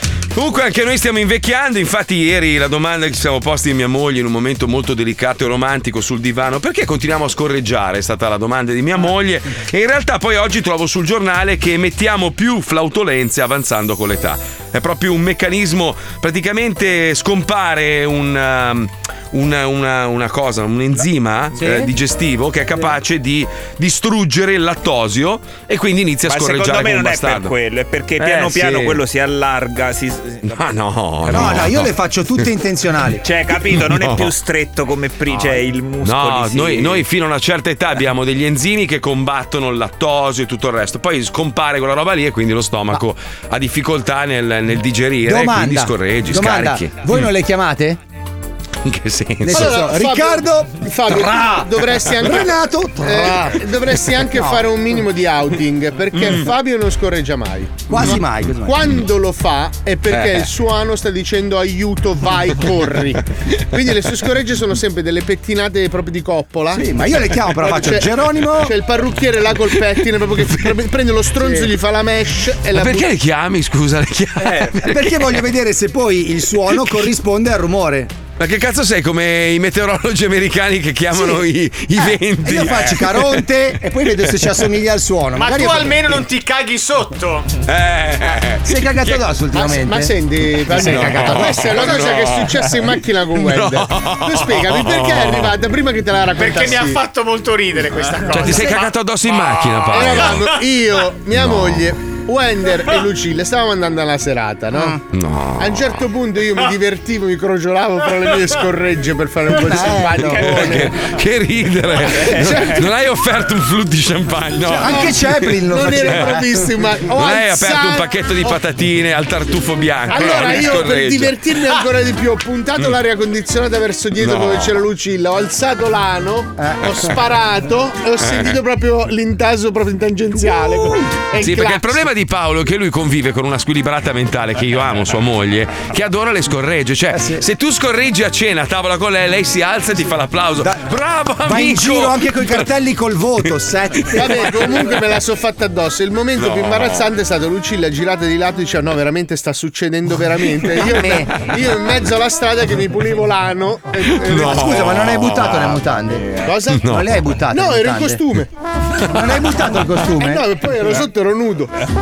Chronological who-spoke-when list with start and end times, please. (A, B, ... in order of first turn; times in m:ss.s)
0:00.3-0:27.5 A
0:21.6-0:21.9 B
0:26.2-0:30.6 C
0:28.2-0:29.0 A
0:30.4-0:32.4 A
0:31.2-0:33.2 B
0:33.2-0:37.0 C
0:33.5-0:34.3 A
0:35.3-0:47.3 A
0:45.2-0:48.0 B
0:48.8-0:49.9 A
0:49.4-0:53.6 B
0:49.5-1:06.8 D
0:54.3-0:54.7 B
0:56.1-0:56.4 A
0:57.9-0:59.0 B
1:00.1-1:00.4 A
1:06.7-1:08.7 B
1:07.6-1:13.1 D
1:12.7-1:15.2 A
1:14.7-1:18.1 B
1:18.4-1:23.4 A
1:22.0-1:26.2 B
1:25.4-1:27.5 E
1:27.6-1:29.2 A
1:28.6-1:30.1 B
1:29.5-1:37.0 D
1:30.7-1:31.9 B
1:30.8-1:35.5 A
1:36.4-1:40.5 E
1:38.3-1:40.5 A
1:39.9-1:45.0 D
1:41.3-1:41.9 A
1:44.7-1:45.0 B
1:45.1-1:46.0 A
1:45.6-1:50.9 D
1:49.5-1:50.9 B
1:50.2-1:56.4 A
1:52.2-1:52.9 D
1:54.6-1:56.4 B
1:54.8-1:55.1 D
1:55.7-1:58.5 D
1:57.2-2:01.8 A
2:00.1-2:12.0 D
2:04.2-2:04.8 A
2:06.6-2:07.2 B
2:08.2-2:08.6 A
2:10.6-2:11.0 B
2:11.4-2:22.7 A
2:17.1-2:17.4 B
2:20.6-2:20.9 B
2:21.4-2:24.6 B
2:24.0-2:24.4 A
2:24.1-2:34.8 D
2:26.4-2:27.1 A
2:30.9-2:31.2 B
2:34.1-2:35.9 A
2:34.3-2:36.3 B
2:36.4-2:36.9 D
2:36.7-2:37.1 A
2:36.8-2:38.2 B
2:37.5-2:38.5 D
2:39.0-2:40.4 B
2:40.2-2:41.7 D